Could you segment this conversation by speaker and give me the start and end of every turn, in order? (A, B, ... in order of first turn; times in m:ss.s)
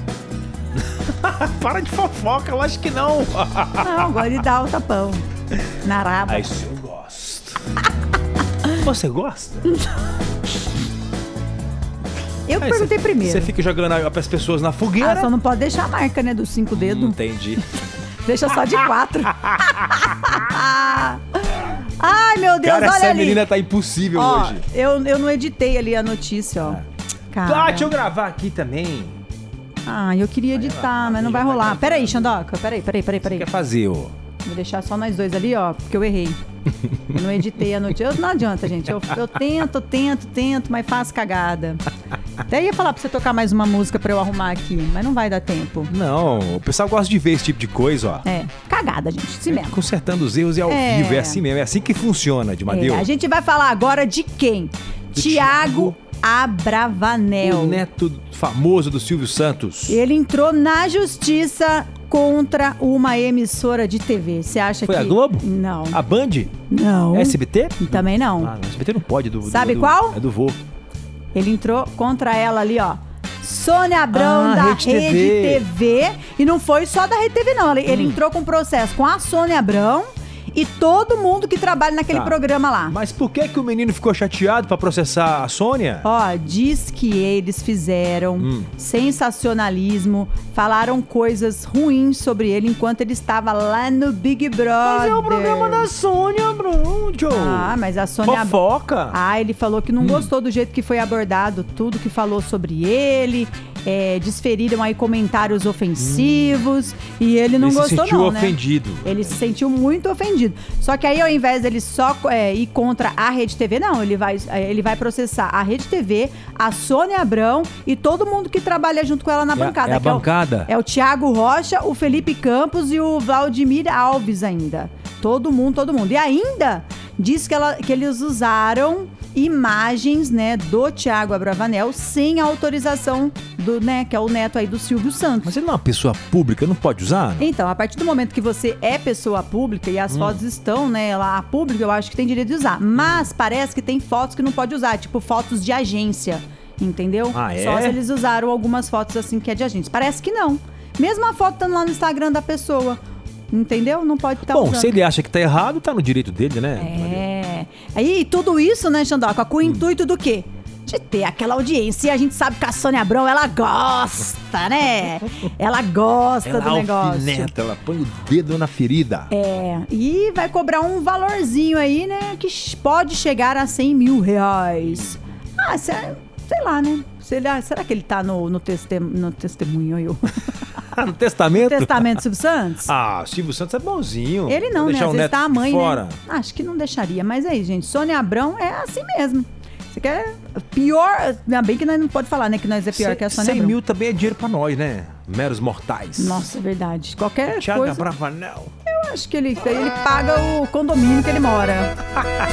0:00.8-0:04.4 A
0:03.8-0:05.2 B
0:05.8-0:06.5 B
0:06.3-0:07.6 A
0:08.7-0:09.8 A
0:12.5-0:13.5 B
0:12.6-0:15.3 A
0:15.0-0:17.2 B
0:16.7-0:17.7 A
0:18.2-0:23.4 B
0:19.3-0:20.4 A
0:22.6-0:24.6 A
0:24.1-0:26.8 B
0:27.3-0:27.9 B
0:27.4-0:29.2 A
0:29.8-0:33.5 B
0:30.5-0:32.4 A
0:33.2-0:34.1 A
0:34.4-0:36.4 B
0:37.1-0:41.8 B
0:42.4-0:45.9 B
0:45.9-0:48.2 A
0:48.2-0:49.8 B
0:49.5-0:53.1 A
0:50.7-0:51.4 B
0:52.7-0:57.8 B
0:55.2-0:56.0 A
0:57.4-1:00.0 A
0:59.9-1:06.0 B
1:04.8-1:06.5 A
1:06.7-1:08.5 B
1:07.1-1:10.6 A
1:09.4-1:10.2 B
1:11.3-1:23.0 B
1:14.1-1:15.7 A
1:17.9-1:18.2 A
1:22.1-1:26.0 A
1:26.0-1:35.9 B
1:28.4-1:28.7 A
1:34.8-1:39.2 A
1:37.3-2:15.5 B
1:40.0-1:40.3 A
1:46.0-1:46.5 A
1:47.6-1:49.4 A
1:59.5-2:00.7 A
2:15.4-2:17.5 A
2:17.4-2:33.0 B
2:20.1-2:20.4 A
2:27.3-2:28.0 A
2:33.5-2:34.9 B
2:34.4-2:37.2 A
2:36.8-2:47.5 B
2:46.4-2:49.3 A
2:49.3-3:00.5 B
3:00.8-3:02.2 A
3:01.5-3:02.9 B
3:02.8-3:06.2 A
3:04.5-3:13.8 B
3:12.9-3:16.4 A
3:16.2-3:18.1 B
3:17.5-3:18.7 A
3:18.9-3:21.9 B